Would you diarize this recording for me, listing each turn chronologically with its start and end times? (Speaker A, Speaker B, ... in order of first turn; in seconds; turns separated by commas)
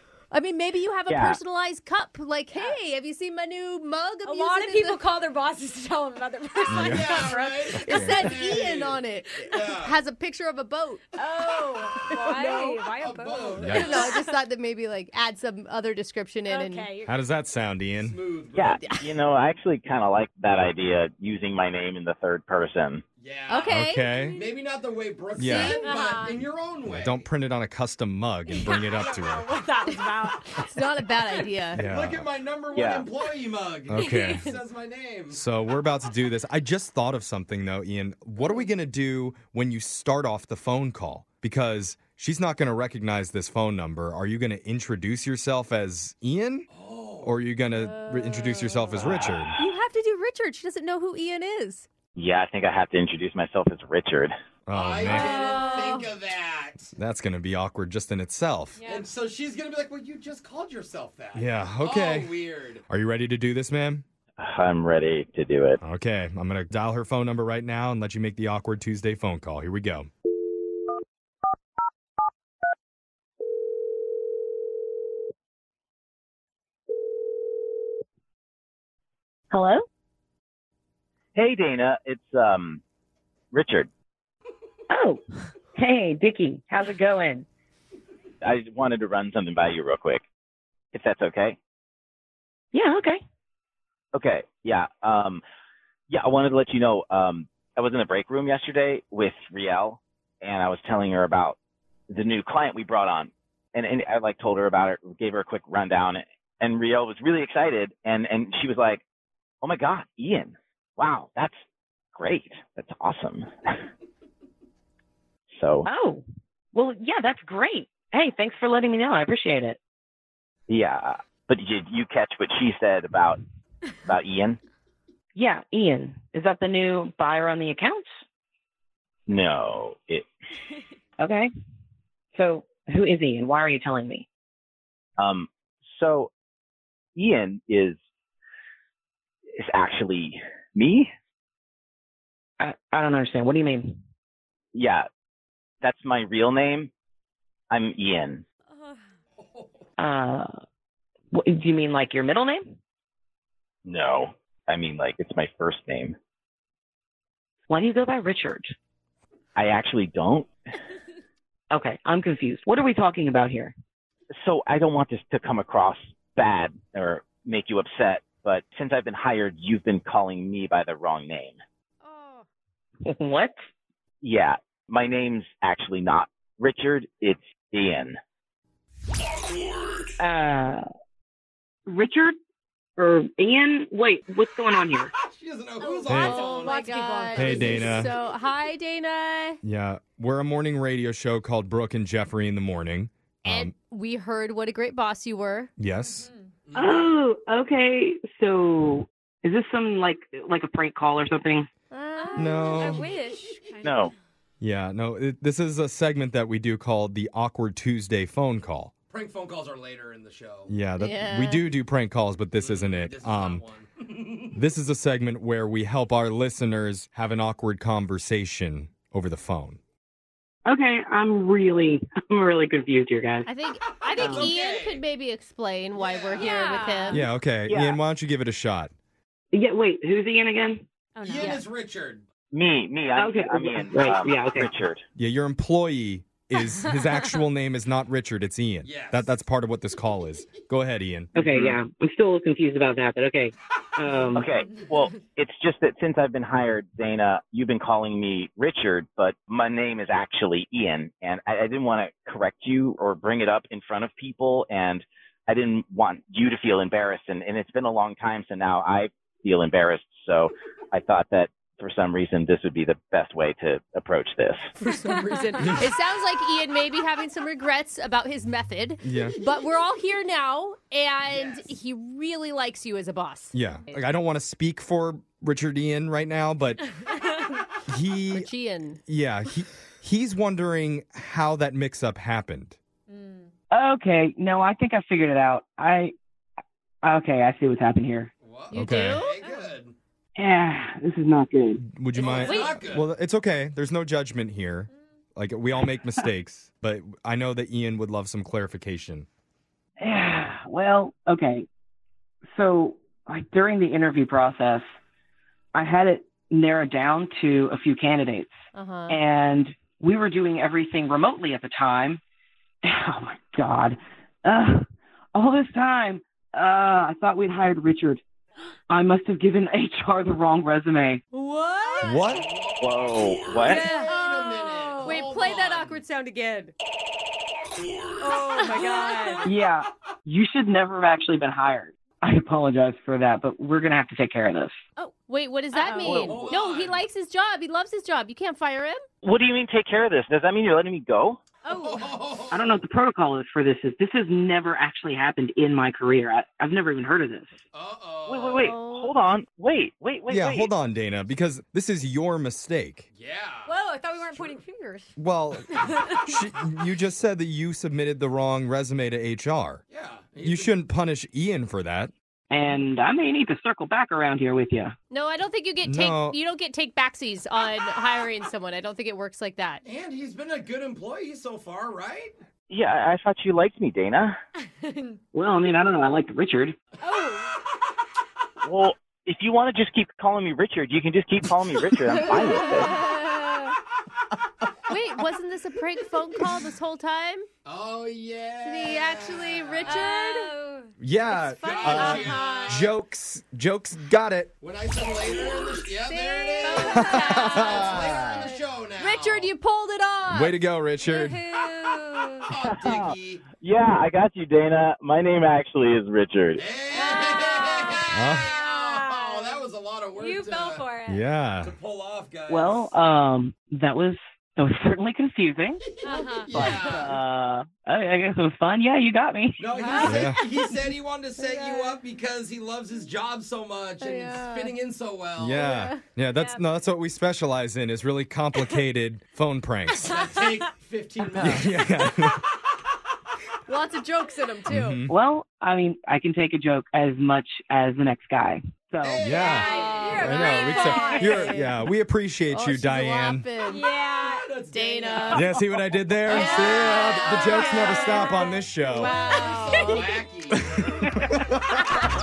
Speaker A: 0.3-5.0, Speaker B: 1.1-1.4, Speaker C: 2.5-2.8, Speaker C: 4.2-8.1, Speaker D: 6.7-8.6, Speaker E: 6.8-9.0, Speaker A: 7.9-11.2, Speaker E: 9.6-10.0, Speaker C: 11.2-14.1, Speaker A: 12.0-12.8, Speaker E: 13.0-14.1, Speaker D: 13.6-14.1, Speaker A: 13.7-16.9, Speaker C: 16.5-17.1, Speaker D: 17.1-18.2, Speaker E: 18.0-18.8, Speaker B: 18.6-23.0, Speaker E: 23.2-23.8, Speaker A: 23.5-24.0, Speaker D: 23.7-24.4, Speaker C: 23.9-24.6, Speaker E: 24.4-27.2, Speaker D: 25.4-25.8, Speaker A: 25.4-25.8, Speaker C: 25.4-26.5, Speaker D: 26.9-29.5, Speaker C: 28.5-31.5, Speaker A: 30.7-31.9, Speaker E: 31.7-35.4, Speaker D: 31.8-32.3, Speaker B: 32.7-33.1, Speaker D: 33.9-34.5, Speaker C: 33.9-34.5, Speaker D: 35.3-46.7, Speaker E: 46.7-47.3, Speaker D: 47.2-49.6, Speaker C: 47.9-48.8, Speaker B: 49.1-49.5, Speaker A: 49.6-51.9, Speaker B: 52.2-54.3, Speaker D: 54.7-55.4, Speaker E: 54.7-56.8, Speaker A: 55.0-56.1, Speaker C: 55.1-56.0, Speaker D: 56.8-58.8, Speaker C: 58.8-59.1, Speaker E: 58.9-62.8, Speaker D: 61.4-62.4, Speaker D: 62.9-64.0, Speaker B: 64.4-65.8, Speaker D: 65.8-70.1, Speaker F: 79.5-79.8, Speaker B: 81.3-82.8, Speaker B: 83.5-83.9, Speaker F: 84.9-85.2, Speaker F: 85.8-87.5, Speaker B: 88.4-90.2, Speaker B: 90.9-91.6, Speaker F: 92.7-93.2, Speaker B: 94.2-95.4, Speaker B: 96.1-101.6, Speaker B: 102.1-109.0, Speaker B: 109.6-111.6, Speaker B: 112.2-113.9, Speaker B: 115.6-115.9, Speaker F: 115.8-119.8, Speaker B: 120.7-123.4, Speaker B: 124.1-124.6, Speaker F: 125.3-128.1, Speaker B: 129.3-130.3, Speaker F: 131.2-131.5, Speaker F: 132.3-134.3, Speaker B: 135.2-136.3, Speaker B: 137.2-138.0, Speaker B: 139.6-141.1, Speaker F: 142.6-144.0, Speaker B: 144.7-145.1, Speaker B: 145.8-146.9, Speaker B: 147.7-148.4, Speaker C: 148.7-149.0, Speaker E: 149.4-149.8, Speaker F: 150.0-150.5, Speaker F: 151.3-152.8, Speaker B: 153.9-156.2, Speaker F: 157.7-158.7, Speaker B: 159.6-160.5, Speaker F: 161.7-163.8, Speaker B: 164.4-171.6, Speaker C: 172.0-172.4, Speaker F: 173.0-173.6, Speaker B: 174.2-178.2, Speaker F: 180.2-180.8, Speaker F: 181.9-182.4, Speaker F: 183.0-185.1, Speaker E: 185.2-186.8, Speaker C: 185.8-187.8, Speaker D: 186.1-186.4, Speaker A: 186.1-189.6, Speaker E: 187.3-188.0, Speaker D: 187.3-188.1, Speaker D: 189.6-193.7, Speaker A: 193.5-195.7, Speaker D: 195.8-196.3, Speaker C: 196.0-196.5, Speaker E: 196.7-197.1, Speaker F: 196.8-201.7, Speaker A: 201.9-203.0, Speaker C: 202.2-204.1, Speaker D: 202.4-203.1, Speaker B: 203.8-204.1, Speaker D: 204.6-208.9, Speaker E: 209.1-210.7, Speaker D: 210.7-213.6, Speaker A: 211.0-211.7, Speaker E: 212.6-214.6, Speaker D: 214.5-219.8, Speaker F: 220.7-223.5, Speaker A: 223.5-227.3, Speaker E: 224.0-225.1, Speaker F: 224.2-224.5, Speaker E: 225.9-226.8, Speaker C: 226.4-227.3, Speaker D: 227.1-228.9, Speaker B: 227.7-228.0, Speaker F: 229.5-230.9, Speaker C: 231.2-231.7, Speaker E: 231.2-232.2, Speaker B: 232.5-235.0, Speaker F: 233.2-234.7, Speaker D: 235.2-241.4, Speaker E: 238.8-239.3, Speaker F: 241.3-244.5, Speaker B: 241.5-241.8, Speaker B: 244.3-264.7, Speaker A: 264.8-273.6, Speaker C: 265.1-265.6, Speaker D: 265.6-265.9, Speaker D: 269.0-269.4, Speaker E: 271.3-271.7, Speaker D: 273.5-276.8, Speaker D: 277.9-278.5, Speaker A: 278.3-279.0, Speaker D: 279.1-282.8, Speaker C: 283.1-283.5, Speaker F: 283.7-286.1, Speaker F: 287.0-288.3, Speaker E: 288.4-290.0, Speaker A: 288.7-289.4, Speaker D: 288.8-289.2, Speaker C: 289.4-289.7, Speaker F: 290.4-291.9, Speaker D: 291.8-299.3, Speaker E: 292.1-293.1, Speaker A: 292.4-292.8, Speaker F: 300.0-301.7, Speaker F: 302.5-304.8, Speaker F: 305.8-308.5, Speaker A: 308.7-309.2, Speaker F: 309.1-312.2, Speaker F: 312.8-318.2, Speaker F: 318.9-321.2, Speaker A: 321.3-322.4, Speaker D: 322.0-322.5, Speaker E: 322.3-326.0, Speaker B: 322.8-323.8, Speaker A: 323.6-324.4, Speaker C: 323.7-325.5, Speaker A: 325.0-326.7, Speaker C: 328.2-329.5, Speaker A: 328.4-329.3, Speaker E: 328.8-329.6, Speaker F: 329.5-334.8, Speaker A: 335.3-339.0, Speaker C: 335.7-336.3, Speaker B: 336.1-336.4, Speaker E: 336.2-337.0, Speaker B: 339.2-341.4, Speaker C: 341.6-342.3, Speaker E: 341.7-342.8, Speaker F: 342.5-347.6, Speaker E: 347.7-348.7, Speaker B: 348.3-350.7, Speaker A: 348.6-349.2, Speaker D: 350.3-353.1, Speaker E: 353.1-353.8, Speaker C: 353.7-355.1, Speaker D: 355.2-359.8, Speaker C: 355.7-356.2, Speaker E: 359.9-360.7, Speaker D: 360.4-362.1, Speaker F: 362.5-364.9, Speaker A: 365.1-369.8, Speaker D: 365.8-366.4, Speaker E: 369.8-372.3, Speaker B: 372.7-374.4, Speaker C: 374.8-375.2, Speaker F: 375.3-376.8, Speaker C: 377.0-377.5, Speaker B: 378.6-383.0, Speaker A: 382.5-383.5, Speaker C: 382.8-383.7, Speaker A: 384.9-387.5, Speaker E: 387.6-389.2, Speaker A: 388.6-390.5, Speaker C: 389.7-390.9, Speaker D: 391.0-394.5, Speaker A: 391.3-392.6, Speaker E: 391.6-392.9, Speaker C: 392.0-392.8, Speaker E: 394.6-399.5, Speaker A: 396.0-400.6, Speaker C: 396.6-398.2, Speaker D: 397.0-398.1, Speaker D: 400.3-401.4, Speaker C: 401.0-402.5, Speaker E: 402.5-403.5, Speaker B: 402.6-406.6, Speaker E: 406.6-410.9, Speaker C: 406.9-411.2, Speaker D: 408.1-408.5, Speaker D: 411.1-411.7, Speaker E: 411.6-412.9, Speaker F: 412.5-415.8, Speaker E: 416.0-417.2, Speaker C: 416.0-416.7, Speaker A: 416.1-416.4, Speaker F: 416.5-419.7, Speaker E: 419.6-425.7, Speaker C: 419.7-420.8, Speaker D: 420.1-420.4, Speaker C: 421.4-421.9, Speaker A: 424.0-424.8, Speaker D: 425.4-430.1, Speaker A: 425.6-426.0, Speaker C: 426.3-426.8, Speaker C: 429.9-430.7, Speaker E: 430.0-432.1, Speaker F: 431.2-431.6, Speaker D: 431.4-432.4, Speaker A: 433.7-435.0, Speaker D: 434.7-435.1, Speaker F: 435.1-439.3, Speaker E: 439.0-440.6, Speaker D: 439.2-443.5, Speaker C: 439.3-441.6, Speaker A: 439.7-441.8, Speaker A: 442.5-443.9, Speaker C: 443.6-444.5, Speaker E: 444.2-445.6, Speaker A: 444.7-445.6, Speaker D: 445.3-449.2, Speaker E: 446.3-447.9, Speaker A: 446.3-448.2, Speaker C: 446.4-450.1, Speaker A: 449.0-450.1, Speaker E: 449.4-450.8